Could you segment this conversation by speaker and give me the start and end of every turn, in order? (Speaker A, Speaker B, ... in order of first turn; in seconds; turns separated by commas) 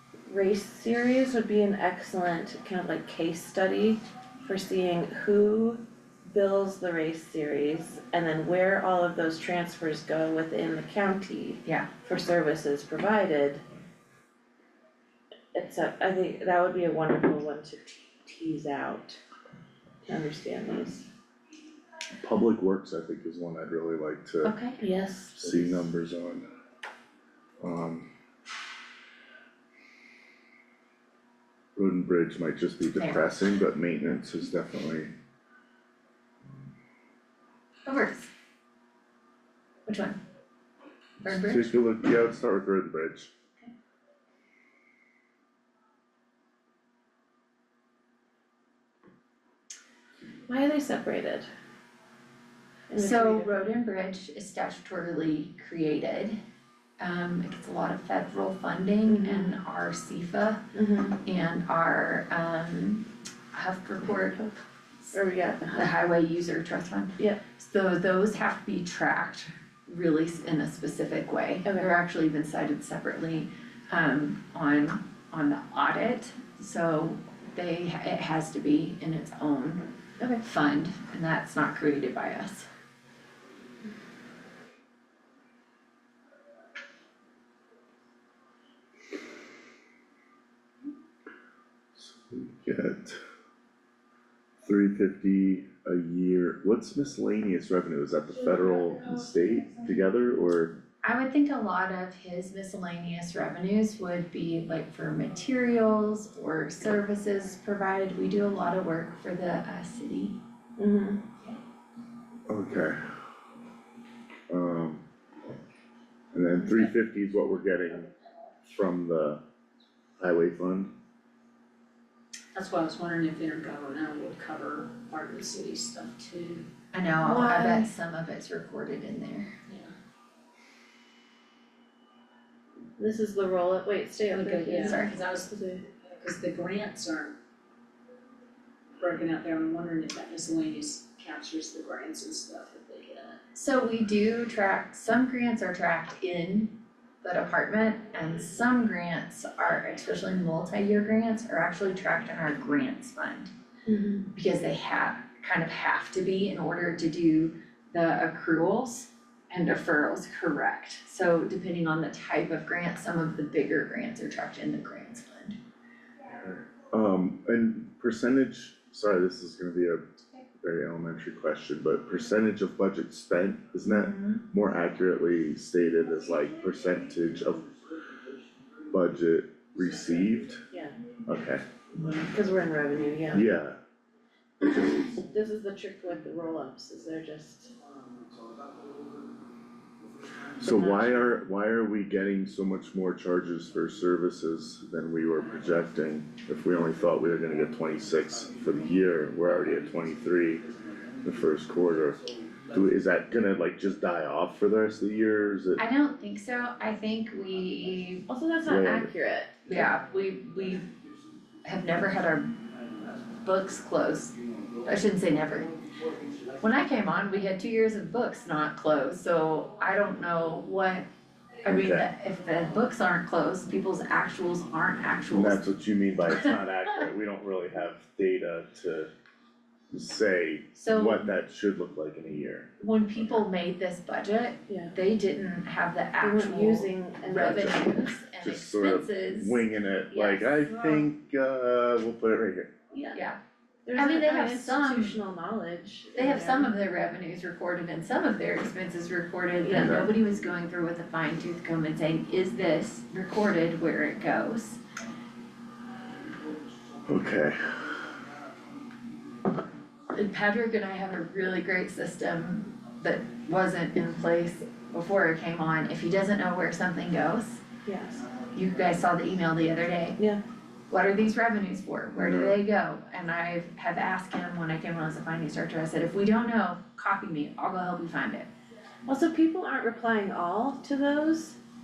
Speaker A: 0.3-13.6, Speaker A: 15.5-19.2, Speaker A: 20.1-21.1, Speaker B: 22.2-24.5, Speaker C: 24.4-24.8, Speaker A: 24.8-25.8, Speaker B: 25.3-26.4, Speaker B: 27.6-28.1, Speaker B: 31.8-35.1, Speaker C: 32.9-33.3, Speaker C: 37.9-38.3, Speaker C: 39.9-40.2, Speaker C: 41.2-41.7, Speaker B: 41.3-43.3, Speaker A: 50.5-51.5, Speaker A: 52.9-53.5, Speaker C: 53.0-56.4, Speaker C: 57.0-60.6, Speaker A: 59.1-59.6, Speaker A: 60.7-61.2, Speaker C: 61.2-64.5, Speaker A: 65.1-65.9, Speaker C: 65.7-79.8, Speaker A: 80.2-80.4, Speaker C: 80.4-82.7, Speaker B: 91.9-93.2, Speaker B: 94.6-100.8, Speaker C: 101.0-110.4, Speaker A: 110.8-111.2, Speaker B: 112.5-113.0, Speaker B: 114.5-115.0, Speaker B: 116.3-118.1, Speaker B: 118.7-119.4, Speaker B: 120.2-120.9, Speaker D: 122.5-126.7, Speaker C: 126.9-129.5, Speaker A: 127.2-127.9, Speaker D: 129.7-129.9, Speaker A: 133.0-135.8, Speaker D: 134.3-137.4, Speaker C: 134.8-135.1, Speaker D: 139.0-143.4, Speaker C: 143.5-153.5, Speaker A: 153.9-154.3, Speaker C: 154.3-165.6, Speaker B: 166.4-170.1, Speaker B: 170.6-177.7, Speaker C: 173.9-174.4, Speaker B: 178.9-180.6, Speaker B: 181.3-181.6, Speaker A: 182.0-183.4, Speaker B: 183.3-183.8, Speaker B: 184.6-185.2, Speaker A: 184.9-187.7, Speaker B: 190.6-200.7, Speaker A: 190.7-191.2, Speaker B: 201.2-205.8, Speaker C: 205.8-208.2, Speaker A: 208.3-209.8, Speaker B: 208.6-209.1, Speaker C: 209.7-210.9, Speaker C: 211.6-212.5, Speaker C: 213.4-215.7, Speaker C: 216.6-221.1, Speaker C: 221.6-225.6, Speaker B: 221.7-222.1, Speaker B: 225.3-229.1, Speaker B: 229.9-232.7, Speaker C: 230.7-231.3, Speaker C: 232.8-240.7, Speaker A: 234.7-234.9, Speaker A: 236.2-237.8, Speaker B: 237.3-237.7, Speaker B: 238.4-242.7, Speaker A: 242.9-243.2, Speaker A: 243.8-246.7, Speaker C: 243.9-245.2, Speaker C: 246.1-254.8, Speaker A: 249.6-250.1, Speaker B: 249.7-250.1, Speaker B: 257.1-257.9, Speaker C: 260.1-267.6, Speaker A: 267.8-268.2, Speaker C: 268.5-270.2, Speaker C: 270.9-278.5, Speaker B: 272.2-272.6, Speaker A: 279.1-281.6